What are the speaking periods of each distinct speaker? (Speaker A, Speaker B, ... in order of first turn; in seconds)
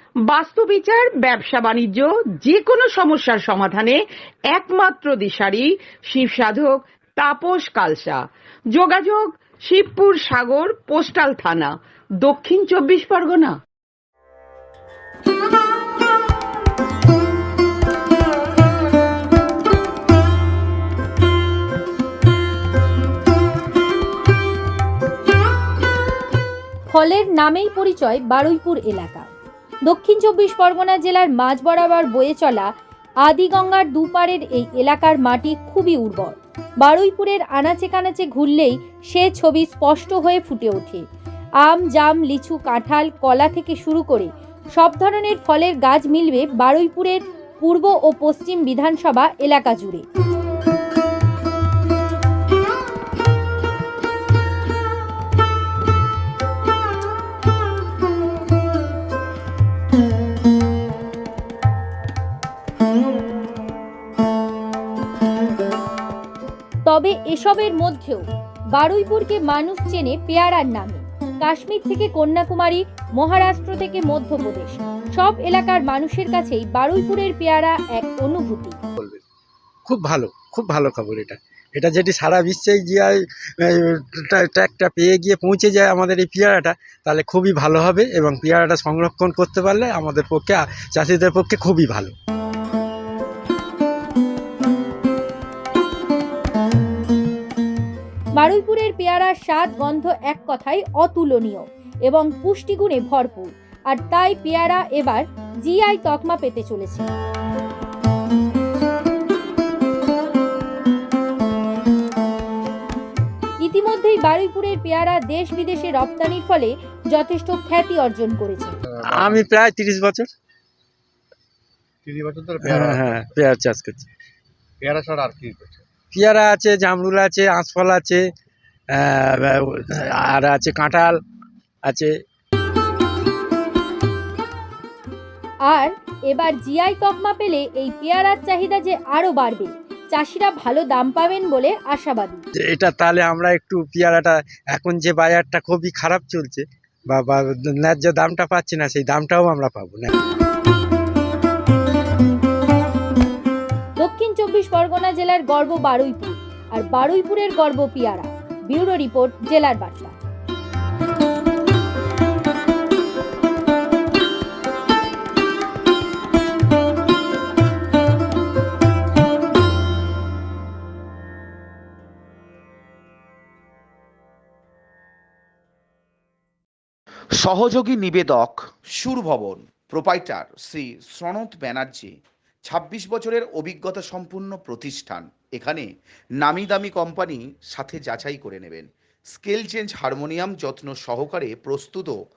Speaker A: 0.2-8.2, 8.7-13.6
Speaker B: 26.9-29.3, 29.9-32.7, 33.2-41.0, 41.6-50.0, 66.8-78.8, 98.4-107.1, 113.6-118.8, 135.7-142.4, 154.0-160.2
Speaker C: 79.8-92.1, 119.1-120.3, 122.6-124.1, 126.1-128.2, 128.9-131.2, 131.8-132.1, 142.6-150.1
Speaker D: 118.9-119.5, 122.0-123.2, 124.8-125.8
Speaker E: 177.4-182.1, 182.7-185.9, 186.4-192.1